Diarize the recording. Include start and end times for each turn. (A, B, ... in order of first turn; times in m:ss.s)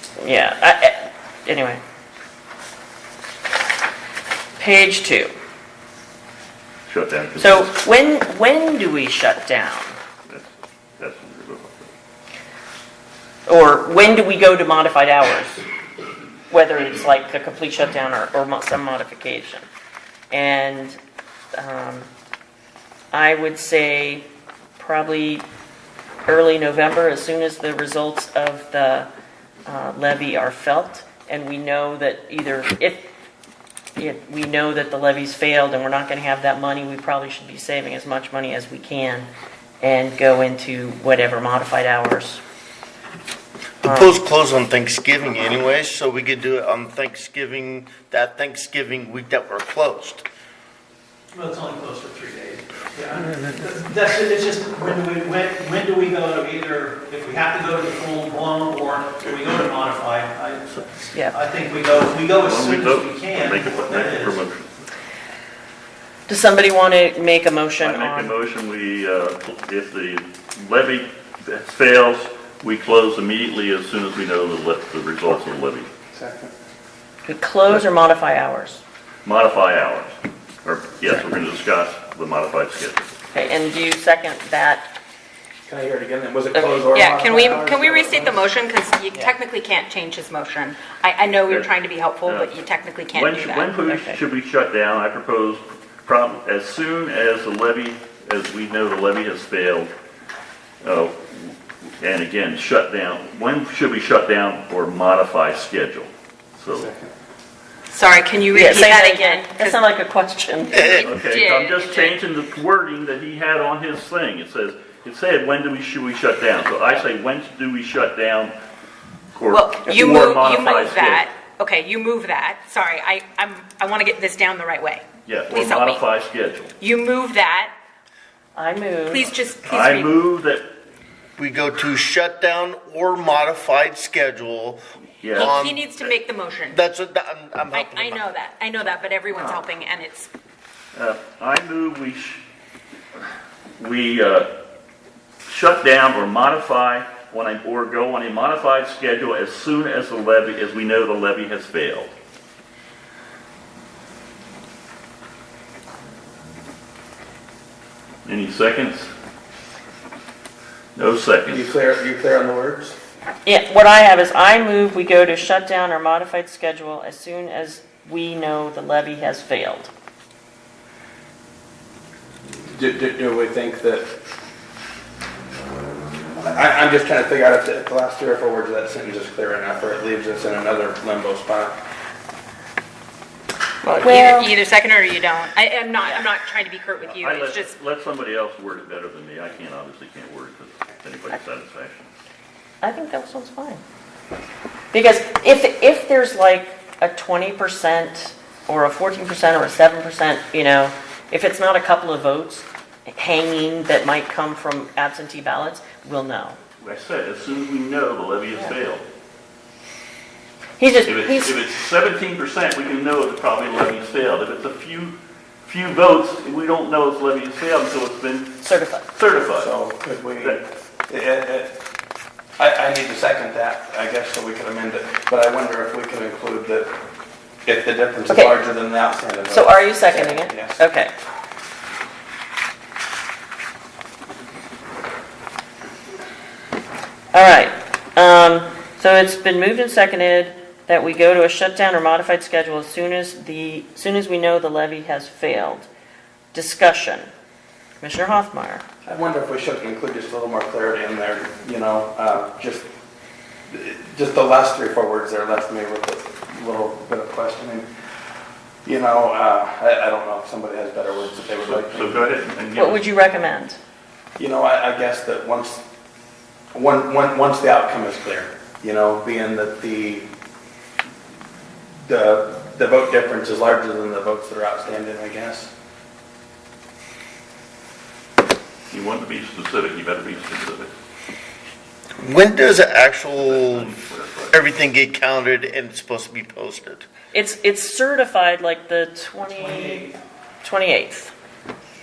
0:00.2-0:01.8 A
0:04.6-0:05.3 A
0:06.9-0:07.7 B
0:07.4-0:10.0 A
0:10.3-0:11.9 B
0:13.4-0:15.6 A
0:16.5-0:19.6 A
0:20.3-0:21.0 A
0:21.5-0:22.1 A
0:23.1-0:24.2 A
0:24.8-0:25.4 A
0:26.2-0:29.1 A
0:29.6-0:33.1 A
0:34.0-0:39.3 A
0:39.8-0:42.4 A
0:43.8-0:50.2 C
0:43.8-0:44.1 A
0:51.3-1:04.4 D
1:01.1-1:01.4 A
1:02.4-1:04.9 B
1:06.3-1:08.3 A
1:07.8-1:15.9 B
1:16.1-1:16.5 E
1:17.3-1:18.8 A
1:19.2-1:23.1 B
1:23.3-1:24.8 A
1:25.7-1:28.4 E
1:26.6-1:27.6 A
1:26.9-1:33.8 F
1:32.2-1:32.5 B
1:33.1-1:39.9 B
1:33.9-1:34.2 A
1:40.8-1:46.9 B
1:46.7-1:47.1 E
1:47.9-1:49.8 F
1:48.5-1:51.1 A
1:50.7-1:51.0 C
1:50.8-1:52.2 F
1:51.0-1:58.5 B
1:59.3-2:01.2 B
1:59.5-2:06.0 F
2:05.2-2:06.7 B
2:06.8-2:07.7 F
2:08.6-2:09.3 A
2:09.1-2:10.1 F
2:09.7-2:10.6 B
2:11.4-2:14.8 C
2:15.2-2:15.5 B
2:15.3-2:16.8 F
2:15.4-2:16.0 C
2:16.7-2:18.2 C
2:17.7-2:20.3 F
2:20.9-2:22.4 B
2:23.8-2:24.6 B
2:25.5-2:32.1 B
2:38.2-2:39.1 B
2:40.9-2:41.7 B
2:41.4-2:43.0 E
2:43.4-2:49.9 A
2:52.7-2:54.1 E
2:56.4-3:01.8 E
3:03.8-3:04.5 A
3:04.0-3:07.7 F
3:07.1-3:12.1 B
3:12.8-3:13.8 A
3:14.9-3:26.6 A
3:26.8-3:29.0 B
3:30.8-3:31.6 A
3:31.0-3:38.6 B
3:38.6-3:39.0 A
3:39.1-3:39.7 B
3:39.5-3:41.8 E
3:42.6-3:46.9 E
3:47.6-3:50.8 E
3:48.3-3:48.6 A
3:49.5-3:51.1 A
3:57.3-4:05.9 A
4:06.5-4:07.3 A
4:08.0-4:08.8 A
4:09.0-4:12.9 E
4:13.7-4:17.9 E
4:18.8-4:22.3 E
4:21.6-4:23.0 B
4:22.8-4:23.8 A
4:24.4-4:25.8 E
4:26.7-4:30.3 E
4:32.0-4:35.7 E
4:38.9-4:40.9 B
4:42.2-4:43.9 C
4:43.4-4:44.6 B
4:44.5-4:47.1 C
4:47.3-4:50.1 A
4:49.5-4:50.1 D
4:50.6-4:51.3 A